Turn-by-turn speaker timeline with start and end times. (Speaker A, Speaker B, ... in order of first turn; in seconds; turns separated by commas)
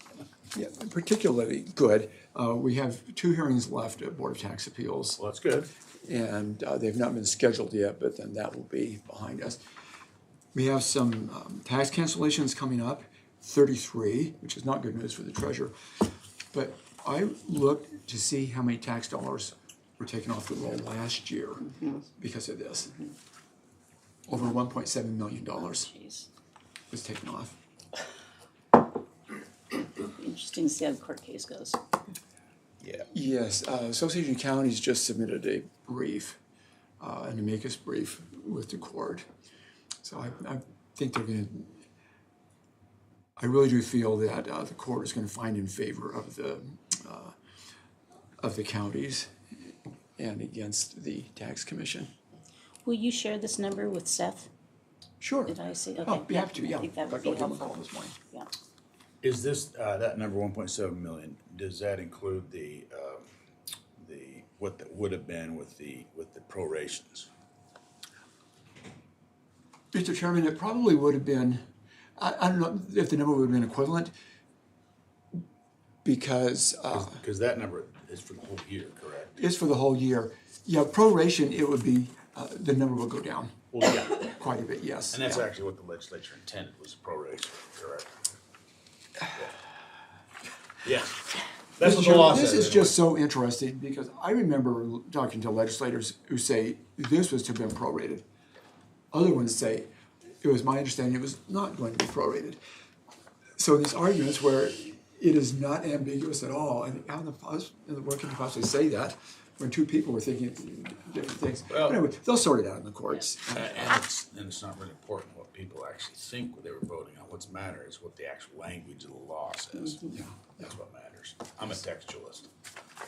Speaker A: 0.5-5.2, Speaker B: 5.2-5.7, Speaker A: 6.0-9.6, Speaker A: 10.5-15.7, Speaker A: 16.5-21.6, Speaker C: 21.6-22.0, Speaker A: 22.2-23.0, Speaker A: 24.3-25.9, Speaker C: 25.6-26.3, Speaker A: 26.9-27.6, Speaker C: 29.9-31.8, Speaker A: 33.1-36.4, Speaker A: 37.0-39.2, Speaker A: 40.0-41.7, Speaker A: 43.4-47.3, Speaker A: 48.4-49.3, Speaker A: 50.2-52.1, Speaker C: 52.8-54.5, Speaker A: 55.2-58.1, Speaker C: 55.5-58.5, Speaker B: 59.2-63.3, Speaker B: 64.0-67.3, Speaker A: 69.9-71.6, Speaker A: 72.2-74.1, Speaker A: 76.0-77.2, Speaker B: 76.9-79.4, Speaker A: 79.4-83.7, Speaker B: 83.7-84.3, Speaker A: 84.2-85.5, Speaker B: 85.1-88.1, Speaker B: 90.8-93.0, Speaker A: 91.8-98.2, Speaker A: 99.1-99.9, Speaker A: 100.4-102.6, Speaker A: 103.6-114.0, Speaker B: 111.7-112.0, Speaker B: 113.5-122.5, Speaker A: 120.1-120.7